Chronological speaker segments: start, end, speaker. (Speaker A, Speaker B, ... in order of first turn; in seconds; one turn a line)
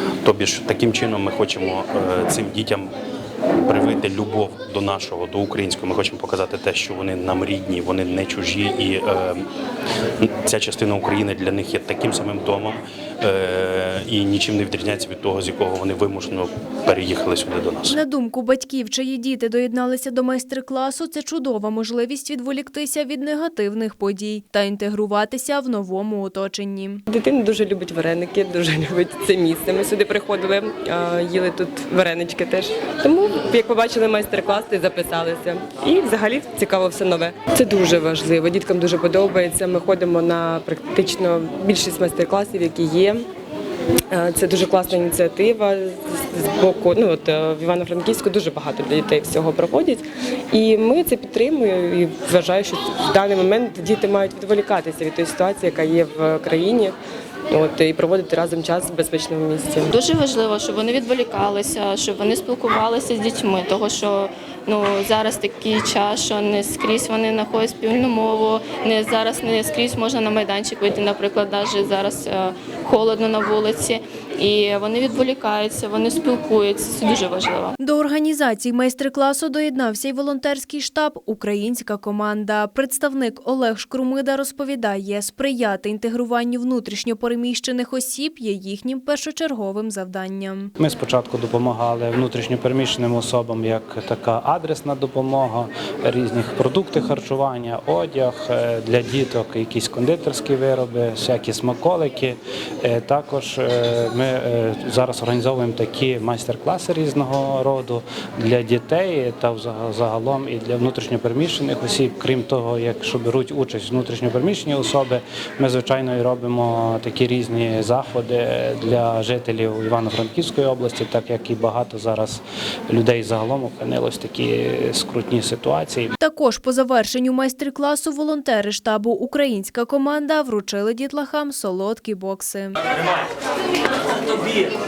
Speaker A: 0.2-2.9
Speaker A: 3.6-9.5
Speaker A: 10.2-18.0
Speaker B: 17.9-27.0
Speaker C: 27.1-43.3
Speaker C: 44.1-57.0
Speaker C: 57.5-59.9
Speaker D: 59.9-77.8
Speaker B: 77.8-90.7
Speaker E: 90.8-126.2
Speaker B: 126.2-132.8